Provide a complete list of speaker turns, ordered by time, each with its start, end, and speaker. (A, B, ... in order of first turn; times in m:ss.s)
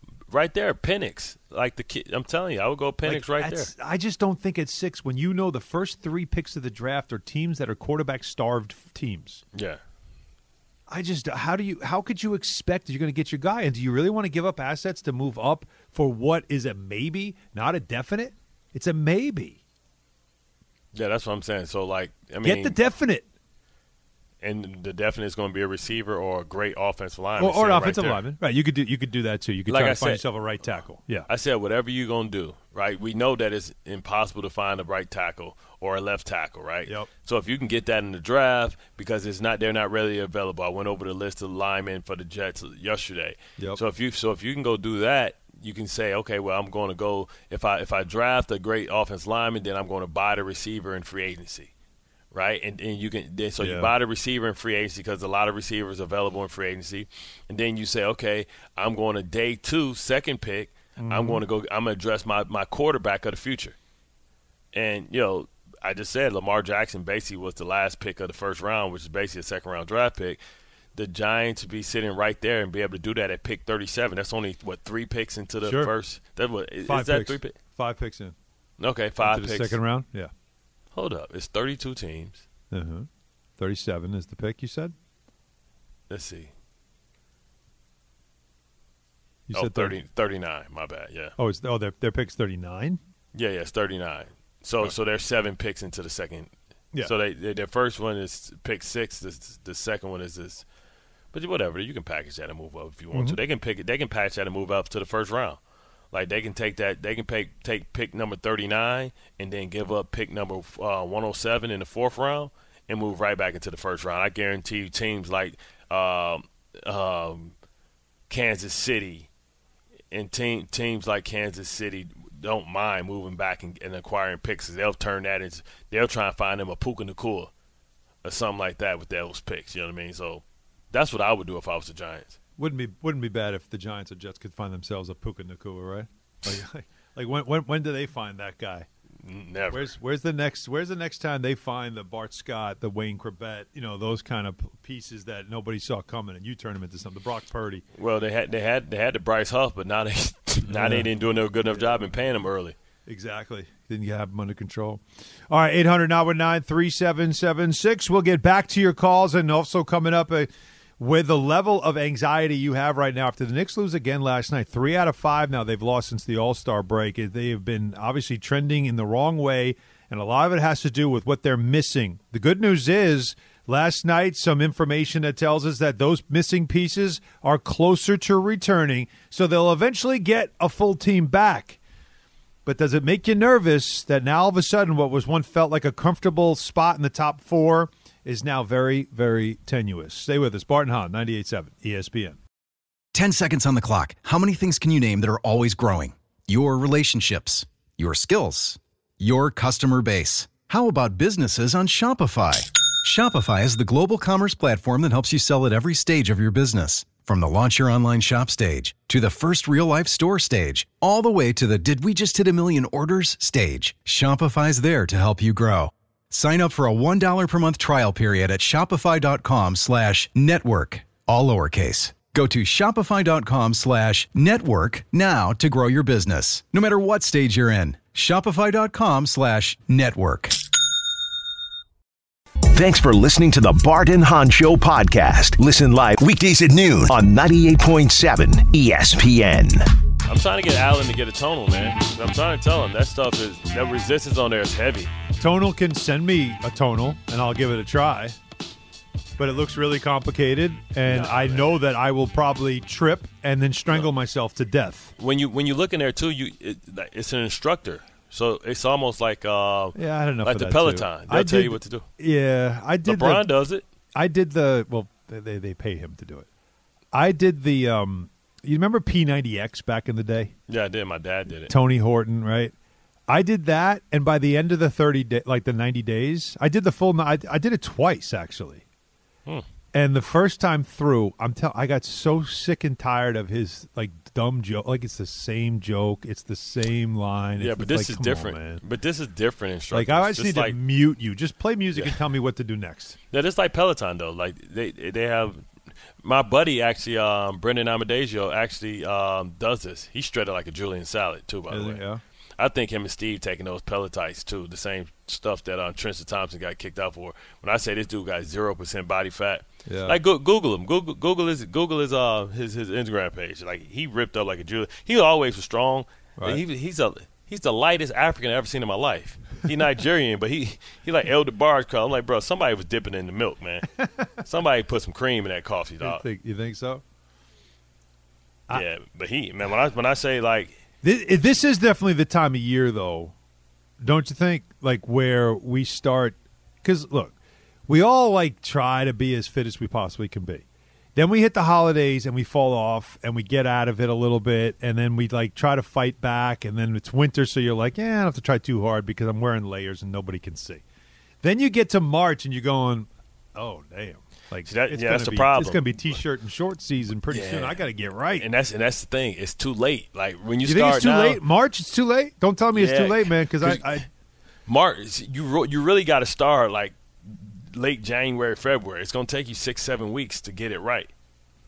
0:00.3-0:03.7 A
0:03.0-0:09.4 B
0:09.5-0:09.8 A
0:10.9-0:19.6 B
0:20.9-0:22.8 A
0:22.4-0:23.2 B
0:24.4-0:28.2 A
0:27.4-0:31.3 B
0:29.7-0:30.2 A
0:31.3-0:51.7 A
0:52.3-1:03.8 A
0:53.6-0:53.9 B
1:01.0-1:01.4 B
1:04.7-1:10.4 A
1:10.9-1:17.5 A
1:15.6-1:15.9 B
1:16.8-1:18.3 B
1:18.8-1:19.8 A
1:19.2-1:20.3 B
1:20.9-1:22.4 A
1:22.7-1:24.9 B
1:26.1-1:26.5 A
1:29.5-1:30.0 B
1:29.5-1:31.3 A
1:31.4-1:33.0 B
1:33.3-1:40.6 A
1:41.3-1:45.6 A
1:43.1-1:43.4 B
1:46.1-1:57.5 A
1:58.3-1:59.3 A
2:00.1-2:07.5 A
2:08.2-2:12.4 A
2:12.6-2:18.9 B
2:19.2-2:19.9 A
2:19.7-2:27.8 B
2:28.0-2:32.7 A
2:30.7-2:31.1 B
2:31.7-2:32.1 B
2:33.0-3:01.8 B
3:02.6-3:12.4 B
3:13.1-3:50.6 C
3:52.7-3:59.8 D
4:00.3-4:05.1 A
4:05.4-4:08.4 B
4:09.4-4:15.1 B
4:11.0-4:11.7 A
4:15.2-4:22.0 A
4:19.9-4:23.4 B
4:23.0-4:23.8 A
4:24.1-4:26.5 B
4:27.1-4:30.5 B
4:30.7-4:31.7 A
4:31.7-4:32.7 B
4:33.3-4:38.8 B
4:39.9-4:48.8 B
4:47.6-4:50.8 A
4:49.9-4:53.2 B
4:53.3-4:55.6 A
4:56.2-5:02.0 A
5:01.7-5:02.2 B
5:02.6-5:26.2 A
5:09.8-5:10.2 B
5:16.4-5:16.6 B
5:26.0-5:27.0 B
5:28.7-5:30.8 A
5:31.0-5:33.3 B
5:34.0-5:37.4 B
5:37.9-5:50.8 B
5:51.4-5:58.5 B
5:54.6-5:56.2 A
5:57.3-6:01.4 A
6:00.6-6:04.1 B
6:02.7-6:04.0 A
6:04.6-6:11.1 A